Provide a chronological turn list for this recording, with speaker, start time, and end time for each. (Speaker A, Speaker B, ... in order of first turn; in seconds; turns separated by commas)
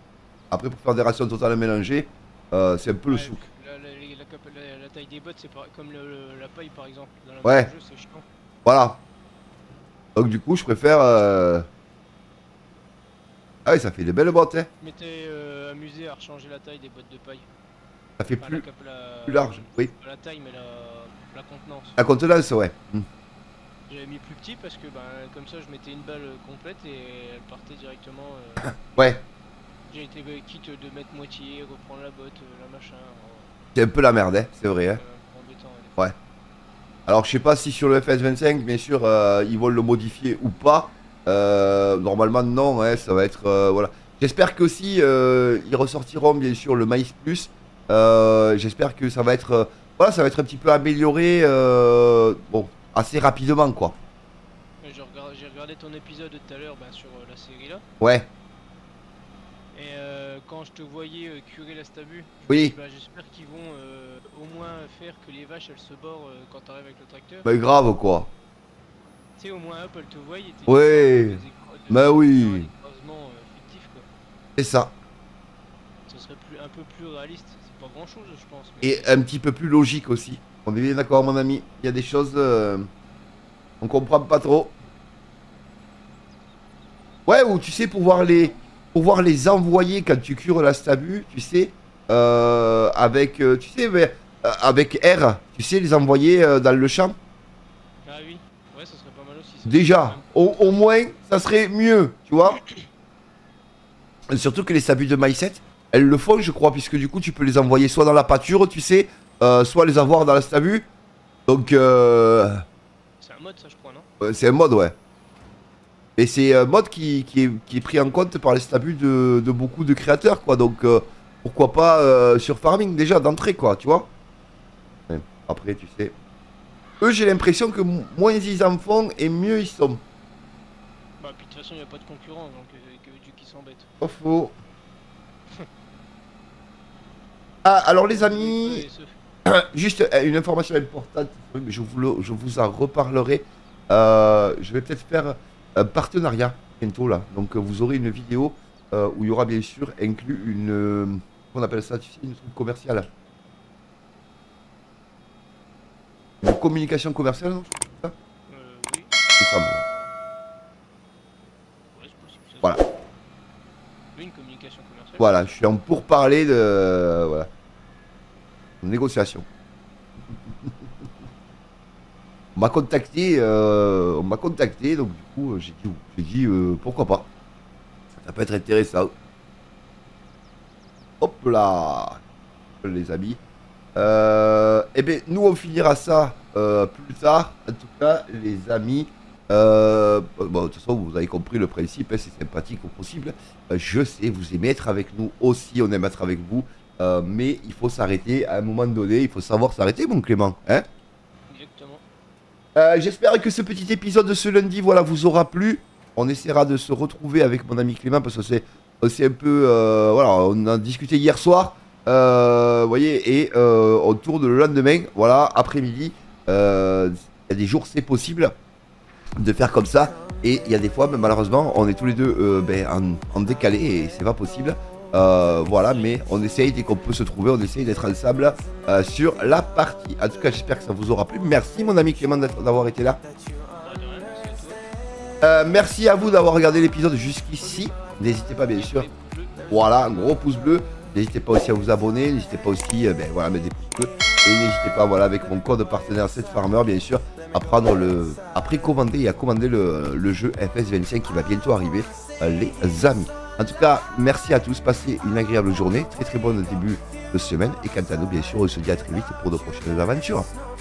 Speaker A: 0.5-3.4, Speaker B: 3.1-8.2, Speaker A: 7.4-7.7, Speaker A: 8.7-9.0, Speaker A: 10.2-11.7, Speaker A: 13.7-14.7, Speaker B: 14.8-17.5, Speaker A: 18.2-18.6, Speaker B: 18.4-22.0, Speaker A: 19.3-19.9, Speaker A: 22.0-23.1, Speaker B: 23.9-29.2, Speaker A: 28.8-29.2, Speaker B: 29.9-33.5, Speaker A: 33.8-35.0, Speaker B: 34.9-36.1, Speaker A: 37.1-54.0, Speaker B: 54.8-57.8, Speaker A: 58.0-58.3, Speaker B: 59.7-67.5, Speaker A: 62.5-62.8, Speaker A: 67.5-68.3, Speaker B: 69.4-74.1, Speaker A: 70.7-72.7, Speaker A: 74.6-75.0, Speaker B: 76.1-79.2, Speaker A: 78.8-82.9, Speaker A: 83.8-84.8, Speaker A: 87.3-97.2, Speaker B: 98.0-100.5, Speaker A: 99.7-102.6, Speaker A: 104.3-110.9, Speaker A: 111.5-112.6, Speaker B: 113.2-114.1, Speaker A: 114.2-115.0, Speaker A: 116.2-124.1, Speaker A: 125.1-126.1, Speaker A: 127.0-130.0, Speaker B: 131.2-133.9, Speaker A: 134.0-134.6, Speaker A: 137.6-138.9, Speaker B: 138.1-139.1, Speaker A: 139.5-153.1, Speaker A: 156.4-158.1, Speaker B: 158.5-160.1, Speaker A: 159.4-159.8, Speaker B: 161.9-162.8, Speaker B: 164.1-165.5, Speaker A: 165.2-167.5, Speaker A: 168.8-169.5, Speaker A: 172.6-177.3, Speaker A: 178.2-179.1, Speaker A: 181.2-182.2, Speaker A: 182.8-183.4, Speaker A: 184.0-200.8, Speaker B: 201.5-202.0, Speaker A: 202.8-218.5, Speaker A: 219.4-233.2, Speaker B: 225.9-226.2, Speaker B: 233.8-234.8, Speaker A: 235.4-239.1, Speaker B: 238.7-240.3, Speaker A: 239.7-260.5